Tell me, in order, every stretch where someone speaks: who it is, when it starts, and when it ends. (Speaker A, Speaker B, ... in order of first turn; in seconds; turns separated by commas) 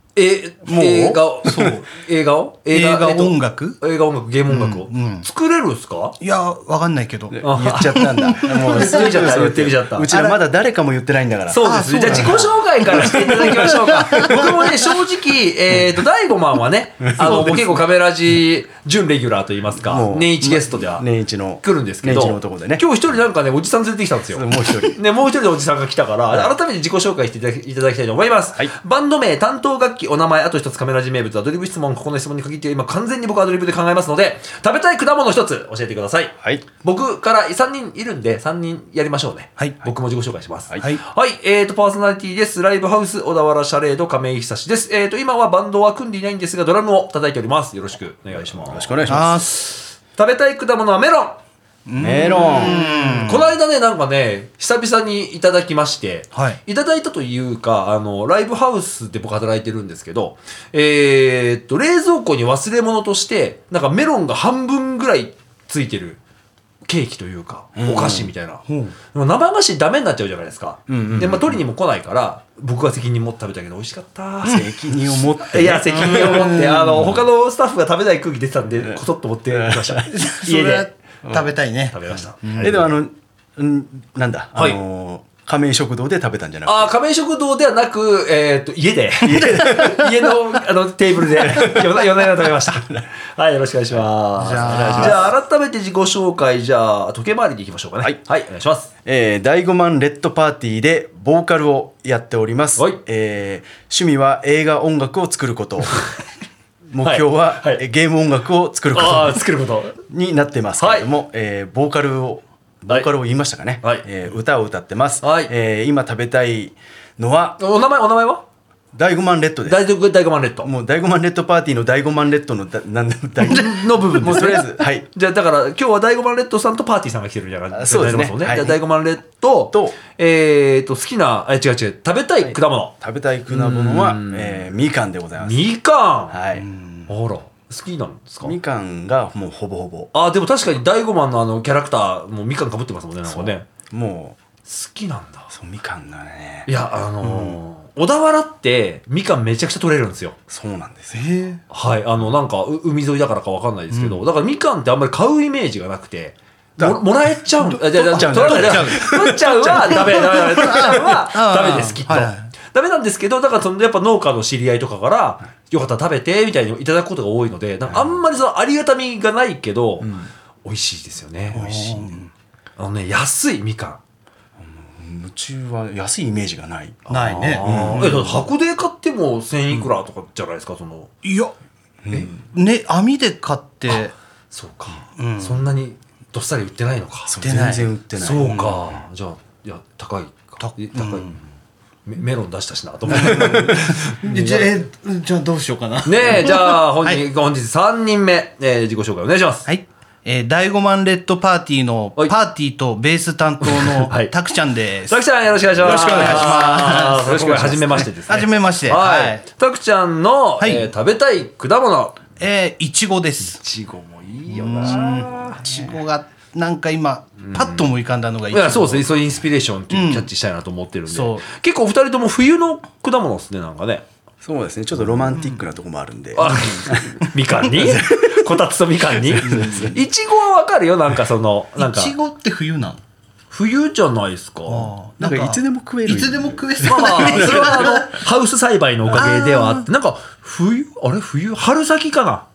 Speaker A: 0.2-6.2, Speaker B: 0.7-1.8, Speaker C: 1.5-1.8, Speaker C: 2.7-3.8, Speaker C: 4.5-5.3, Speaker C: 6.2-9.1, Speaker B: 7.3-13.7, Speaker A: 7.4-7.9, Speaker A: 8.6-10.1, Speaker C: 10.1-10.4, Speaker A: 11.5-21.1, Speaker C: 11.6-14.6, Speaker B: 17.1-17.7, Speaker C: 17.3-17.6, Speaker B: 19.8-22.9, Speaker A: 21.6-51.4, Speaker B: 24.3-25.0, Speaker B: 48.3-49.4, Speaker C: 49.1-49.6, Speaker C: 51.9-53.5, Speaker B: 52.0-53.2, Speaker A: 52.3-66.2, Speaker C: 56.4-56.6, Speaker A: 66.9-74.7, Speaker B: 67.8-68.3, Speaker C: 68.7-68.9, Speaker B: 70.9-71.6, Speaker B: 74.4-77.1, Speaker A: 75.4-80.9, Speaker C: 76.0-77.0, Speaker B: 79.5-80.1, Speaker C: 80.1-82.8, Speaker B: 81.2-81.5, Speaker A: 81.9-82.8, Speaker B: 82.6-86.9, Speaker A: 86.7-98.9, Speaker B: 89.2-90.3, Speaker C: 89.6-89.9, Speaker B: 91.3-93.0, Speaker C: 94.4-95.2, Speaker B: 94.6-95.3, Speaker B: 99.0-106.1, Speaker B: 106.9-109.4, Speaker A: 107.0-107.8, Speaker A: 108.9-110.0, Speaker B: 110.1-117.6, Speaker A: 110.8-111.1, Speaker A: 115.2-115.5, Speaker A: 117.6-118.4, Speaker B: 118.9-119.8, Speaker A: 119.7-120.7, Speaker B: 120.6-125.1, Speaker A: 123.4-132.9, Speaker B: 127.7-128.8, Speaker B: 129.7-130.0, Speaker B: 132.4-135.7, Speaker A: 133.5-134.7, Speaker A: 135.4-136.4, Speaker B: 136.3-136.7, Speaker A: 137.1-138.6, Speaker B: 138.4-140.1, Speaker A: 140.1-143.7, Speaker B: 143.3-144.4, Speaker A: 144.7-145.5, Speaker B: 145.5-146.7, Speaker A: 146.7-150.4, Speaker B: 147.2-147.6, Speaker B: 150.5-151.2, Speaker C: 151.1-151.6, Speaker A: 151.7-172.2, Speaker B: 156.8-157.0, Speaker C: 157.6-159.2, Speaker B: 157.9-160.9, Speaker C: 159.9-162.5, Speaker B: 170.0-170.3, Speaker C: 171.5-172.3, Speaker A: 172.8-174.0, Speaker B: 174.6-177.1, Speaker C: 177.1-178.0, Speaker A: 177.1-181.1, Speaker B: 177.6-178.5, Speaker C: 181.2-181.5, Speaker B: 182.1-182.3, Speaker C: 182.4-184.2, Speaker A: 184.5-187.4, Speaker C: 185.2-185.7, Speaker B: 187.3-188.7, Speaker C: 187.4-188.8, Speaker A: 188.2-191.3, Speaker C: 190.6-191.4, Speaker A: 192.1-194.7, Speaker C: 193.1-197.2, Speaker B: 193.3-193.8, Speaker A: 196.1-199.7, Speaker C: 199.7-205.2, Speaker A: 203.6-204.3, Speaker A: 205.1-212.2, Speaker C: 205.8-209.4, Speaker B: 206.1-206.4, Speaker C: 210.6-210.9, Speaker C: 212.4-213.6, Speaker A: 213.6-215.9, Speaker C: 214.5-219.2, Speaker A: 217.4-217.8, Speaker A: 218.5-224.1, Speaker C: 219.9-220.3, Speaker C: 221.1-221.4, Speaker B: 224.4-228.5, Speaker A: 226.3-232.2, Speaker B: 229.2-230.0, Speaker C: 229.5-229.9, Speaker C: 231.8-233.0, Speaker A: 233.5-234.9, Speaker C: 234.7-238.2, Speaker B: 235.2-237.9, Speaker A: 236.8-242.5, Speaker C: 239.2-239.9